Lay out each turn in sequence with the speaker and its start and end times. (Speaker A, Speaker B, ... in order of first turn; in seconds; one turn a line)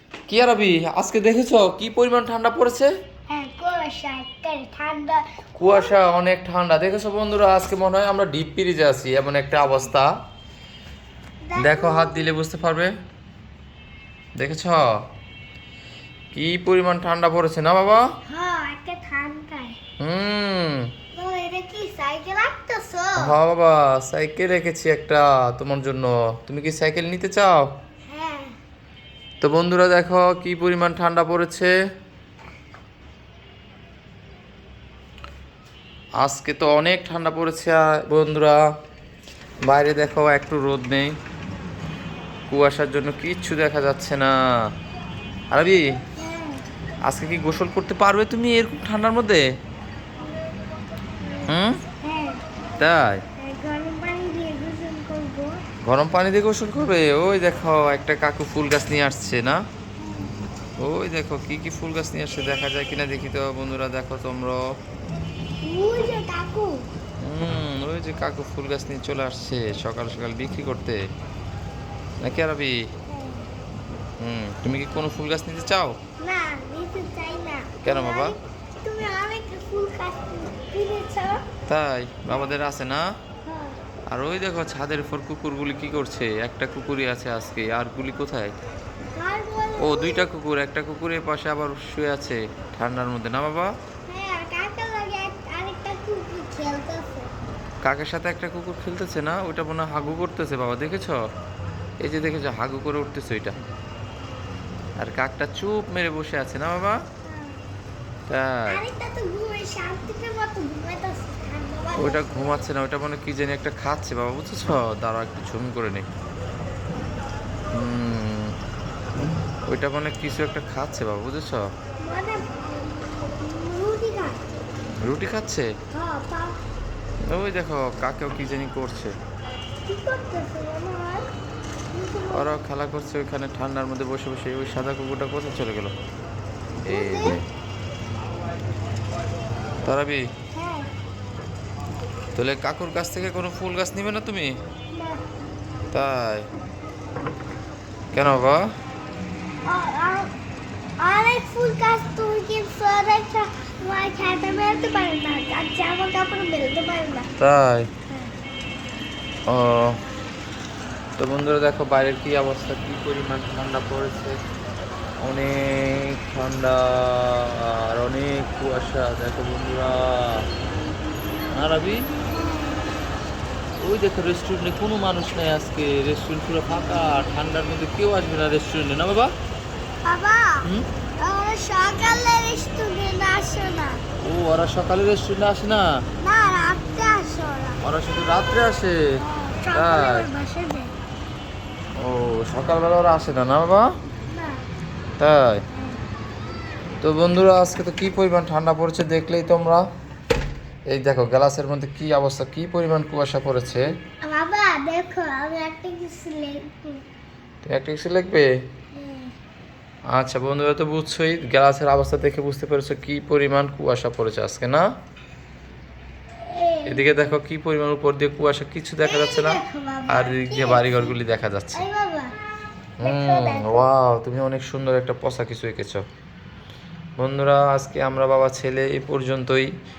Speaker A: 0.3-2.9
Speaker B: 3.3-6.0
Speaker A: 5.6-10.1
Speaker B: 11.4-12.3
Speaker A: 11.6-12.9
Speaker A: 14.4-14.9
Speaker A: 16.3-18.0
Speaker B: 18.2-19.8
Speaker A: 20.0-20.9
Speaker B: 21.1-23.4
Speaker A: 23.2-27.7
Speaker B: 28.1-28.5
Speaker A: 29.4-31.7
Speaker A: 36.2-38.5
Speaker A: 39.7-41.1
Speaker A: 42.5-44.3
Speaker A: 45.5-45.8
Speaker B: 46.2-46.6
Speaker A: 47.1-49.4
Speaker A: 51.5-51.8
Speaker B: 52.0-52.4
Speaker A: 52.8-53.2
Speaker B: 53.4-55.6
Speaker A: 55.8-59.6
Speaker B: 60.0-60.3
Speaker A: 60.8-64.6
Speaker B: 65.6-66.9
Speaker A: 67.2-71.0
Speaker A: 72.2-72.8
Speaker B: 73.1-73.5
Speaker A: 74.2-76.0
Speaker B: 76.2-81.4
Speaker A: 77.8-78.4
Speaker A: 81.7-83.0
Speaker B: 83.4-83.8
Speaker A: 84.1-88.5
Speaker B: 89.2-90.3
Speaker A: 89.8-93.7
Speaker B: 94.1-97.3
Speaker A: 97.8-101.2
Speaker A: 102.0-103.5
Speaker A: 105.0-107.0
Speaker B: 107.2-107.6
Speaker A: 108.3-108.8
Speaker B: 108.7-112.7
Speaker A: 112.0-116.1
Speaker A: 117.7-118.5
Speaker A: 119.7-121.6
Speaker B: 122.0-124.4
Speaker A: 125.0-125.7
Speaker B: 125.9-126.6
Speaker A: 127.3-129.1
Speaker B: 129.8-131.2
Speaker B: 131.9-132.6
Speaker A: 132.3-135.9
Speaker B: 136.9-137.4
Speaker A: 136.9-137.4
Speaker A: 139.8-140.2
Speaker B: 140.5-140.9
Speaker A: 142.3-144.5
Speaker B: 144.9-145.2
Speaker A: 145.9-146.4
Speaker A: 148.1-148.6
Speaker B: 149.7-150.3
Speaker B: 151.0-157.3
Speaker A: 157.4-157.9
Speaker A: 159.5-160.0
Speaker A: 161.2-164.3
Speaker A: 165.2-170.5
Speaker A: 171.5-172.1
Speaker B: 172.3-172.8
Speaker A: 173.8-179.3
Speaker B: 180.0-180.7
Speaker B: 181.2-184.0
Speaker A: 184.2-185.9
Speaker B: 186.2-187.8
Speaker A: 187.8-189.0
Speaker B: 189.2-190.9
Speaker A: 189.7-190.2
Speaker A: 192.0-193.8
Speaker B: 194.3-194.6
Speaker A: 195.2-195.6
Speaker A: 197.0-199.8
Speaker A: 200.9-203.8
Speaker B: 204.2-207.0
Speaker A: 207.6-208.5
Speaker B: 208.9-209.3
Speaker A: 210.1-214.8
Speaker B: 216.4-217.0
Speaker A: 216.8-221.8
Speaker B: 219.0-221.2
Speaker B: 221.7-222.3
Speaker A: 223.0-226.0
Speaker B: 223.0-223.9
Speaker A: 227.2-229.7